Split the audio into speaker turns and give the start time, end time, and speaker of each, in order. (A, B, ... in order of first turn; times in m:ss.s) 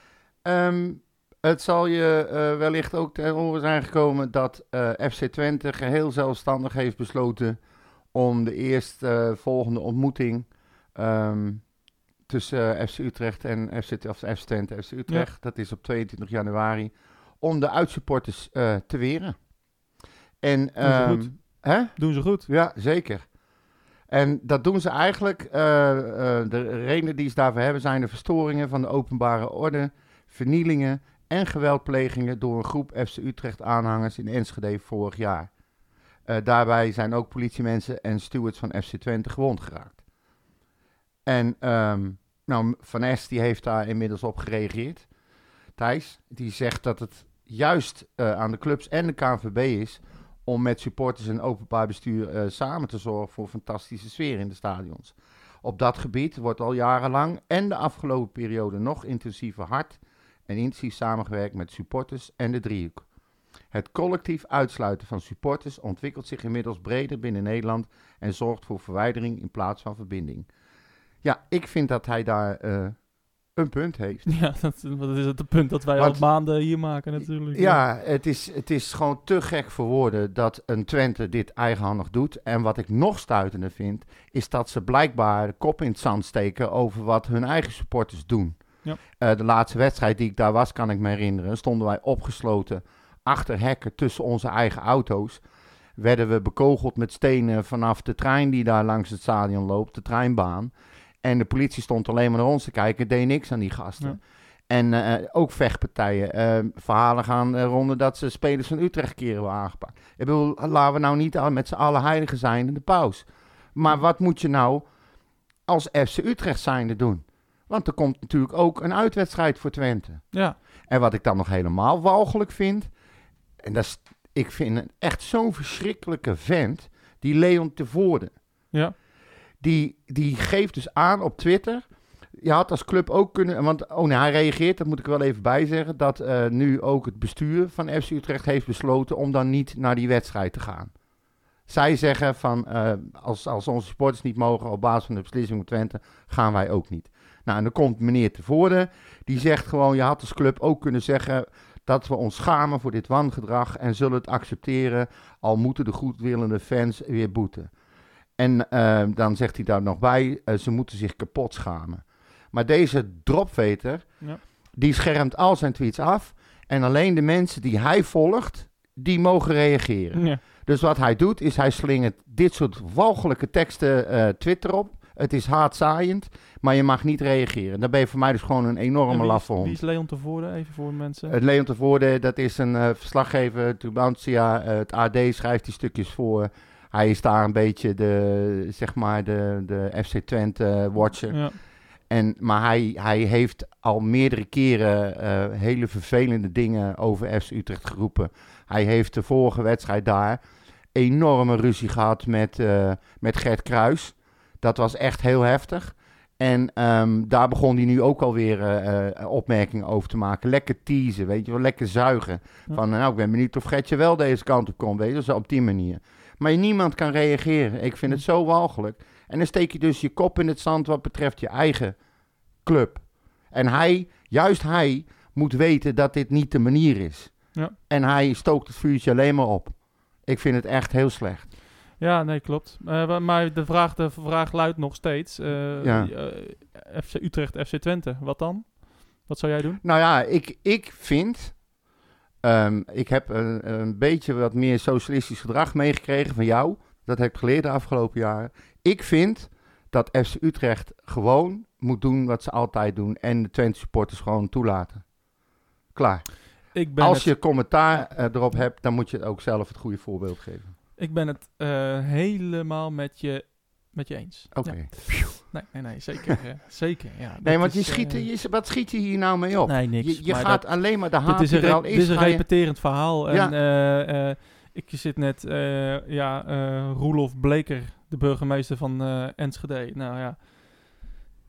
0:00.4-0:07.6 A
0:08.1-0:11.7 A
0:12.3-0:19.4 A
0:20.4-0:23.3 A
0:20.8-0:22.5 B
0:24.1-0:35.5 A
0:36.3-0:40.0 A
0:41.3-0:45.1 A
0:45.8-1:03.1 A
1:03.7-1:10.5 A
1:11.2-1:13.0 A
1:13.5-1:14.3 A
1:14.3-1:17.8 B
1:16.0-1:16.2 A
1:17.4-1:35.4 A
1:36.0-1:40.7 A
1:41.2-1:54.9 A
1:55.7-2:00.3 A
2:00.3-2:00.6 B
2:00.9-2:02.9 A
2:03.6-2:08.3 A
2:09.6-2:11.8 A
2:12.4-2:20.9 A
2:21.7-2:37.7 A
2:38.4-2:59.8 A
2:50.1-2:50.4 B
2:59.1-3:01.4 B
3:01.3-3:20.4 A
3:11.3-3:11.6 B
3:20.9-3:42.0 A
3:42.6-3:51.5 A
3:52.0-3:59.8 B
3:55.8-3:56.1 A
3:59.8-4:01.6 A
4:02.4-4:15.0 A
4:16.0-4:20.7 A
4:16.7-4:17.4 B
4:21.0-4:28.3 B
4:24.5-4:25.6 A
4:27.4-4:33.6 A
4:29.6-4:41.0 B